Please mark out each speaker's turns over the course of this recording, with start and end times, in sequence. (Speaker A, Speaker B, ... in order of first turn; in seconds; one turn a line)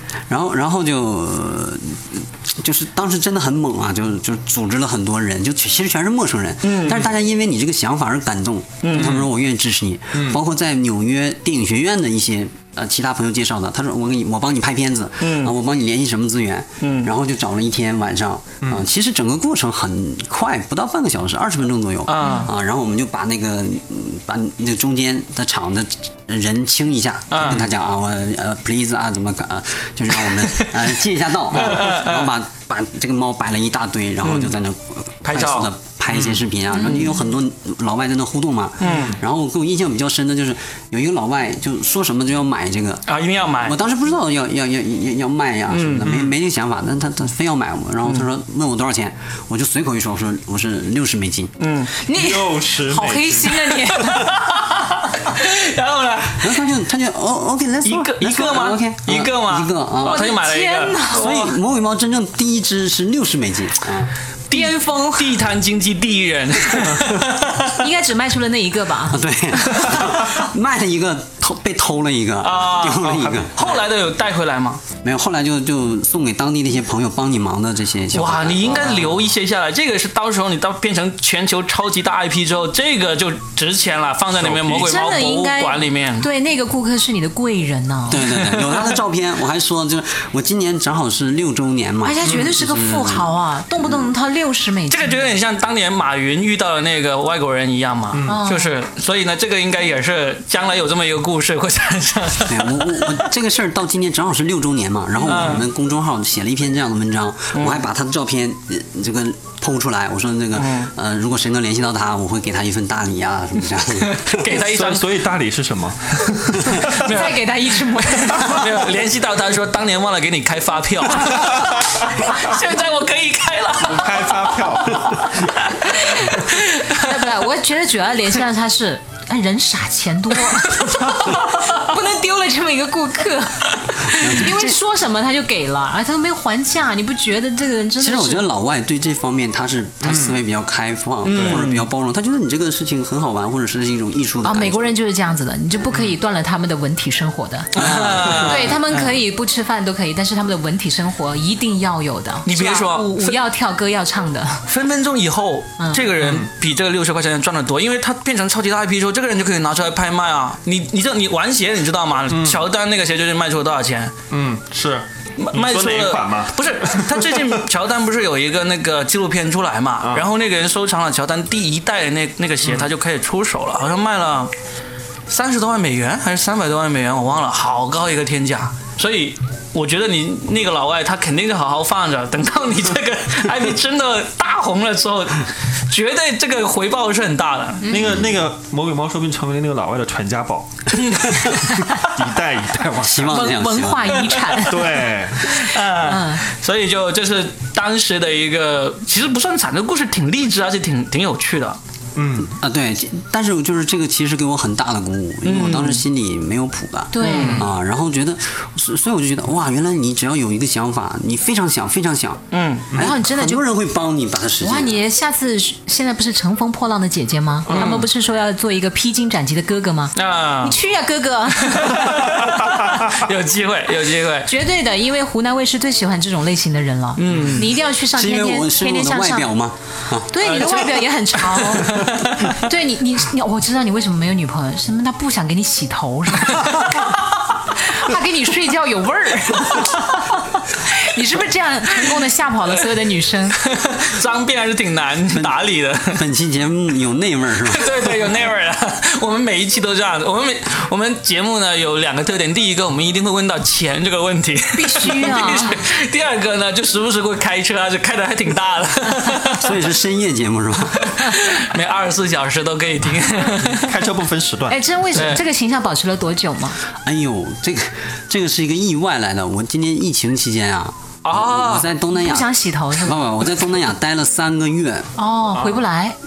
Speaker A: 0.3-43.0
Speaker B: 6.6-7.1
Speaker B: 8.8-9.2
Speaker C: 8.9-9.3
Speaker C: 10.1-10.4
Speaker B: 15.2-15.5
Speaker B: 16.8-17.1
Speaker B: 22.1-22.5
Speaker D: 22.2-22.5
Speaker B: 27.3-27.7
Speaker B: 31.5-32.3
Speaker B: 34.2-34.5
Speaker B: 35.2-35.7
Speaker C: 36.1-36.4
Speaker D: 36.7-37.2
Speaker B: 38.8-39.1
Speaker C: 38.8-39.2
Speaker B: 43.1-43.8
Speaker A: 43.6-51.5
Speaker B: 45.7-46.1
Speaker C: 46.0-46.3
Speaker B: 51.6-51.9
Speaker D: 52.0-54.4
Speaker C: 52.1-54.2
Speaker B: 54.0-56.5
Speaker A: 56.3-60.3
Speaker B: 57.8-61.5
Speaker D: 60.0-61.4
Speaker A: 61.1-64.1
Speaker B: 64.5-67.8
Speaker D: 64.5-65.3
Speaker D: 67.7-69.2
Speaker A: 69.1-73.5
Speaker B: 72.4-74.8
Speaker C: 73.0-73.5
Speaker A: 75.0-79.2
Speaker B: 78.1-86.2
Speaker C: 84.3-85.0
Speaker D: 84.8-88.3
Speaker A: 88.1-94.1
Speaker B: 88.3-88.8
Speaker D: 92.0-95.3
Speaker C: 92.2-92.5
Speaker B: 94.9-103.2
Speaker C: 98.1-98.4
Speaker D: 98.2-98.7
Speaker A: 102.5-114.5
Speaker B: 105.2-105.7
Speaker B: 107.5-107.8
Speaker B: 110.5-110.9
Speaker B: 114.0-115.0
Speaker C: 114.5-117.1
Speaker D: 116.7-118.7
Speaker B: 116.7-117.4
Speaker B: 118.0-125.3
Speaker C: 123.8-125.5
Speaker B: 125.9-127.2
Speaker D: 125.9-138.5
Speaker B: 130.8-131.1
Speaker A: 134.0-134.8
Speaker A: 138.0-144.9
Speaker C: 140.0-140.3
Speaker B: 141.2-141.8
Speaker C: 141.3-141.6
Speaker D: 144.4-147.7
Speaker B: 147.7-149.2
Speaker A: 147.8-148.7
Speaker D: 148.3-154.6
Speaker B: 152.4-153.4
Speaker B: 154.7-164.1
Speaker C: 156.2-156.5
Speaker C: 162.3-162.6
Speaker C: 164.3-167.6
Speaker B: 165.4-174.5
Speaker B: 175.3-187.8
Speaker D: 187.8-188.2
Speaker C: 187.9-193.4
Speaker B: 191.0-191.2
Speaker A: 193.0-194.2
Speaker D: 193.3-196.4
Speaker B: 194.2-194.6
Speaker C: 194.6-195.4
Speaker B: 195.5-201.8
Speaker C: 202.1-202.5
Speaker A: 202.4-215.0
Speaker B: 205.4-206.0
Speaker D: 207.1-207.6
Speaker B: 207.2-207.6
Speaker B: 212.5-212.9
Speaker D: 212.9-213.6
Speaker D: 214.6-222.4
Speaker C: 217.7-218.0
Speaker B: 217.7-218.1
Speaker B: 220.1-220.8
Speaker B: 221.6-224.5
Speaker C: 222.3-223.0
Speaker D: 224.4-229.5
Speaker B: 227.2-227.7
Speaker C: 227.3-227.6
Speaker A: 228.0-230.7
Speaker D: 230.3-237.1
Speaker B: 230.6-230.9
Speaker B: 231.5-232.6
Speaker D: 237.8-243.6
Speaker B: 243.6-246.2
Speaker A: 246.1-247.9
Speaker B: 247.6-259.8
Speaker D: 254.7-255.8
Speaker A: 259.4-261.1
Speaker B: 261.0-263.9
Speaker C: 263.6-264.8
Speaker D: 264.7-266.8
Speaker B: 265.1-265.4
Speaker A: 267.0-275.1
Speaker B: 271.2-271.9
Speaker D: 272.1-273.2
Speaker D: 275.2-276.1
Speaker C: 275.5-275.8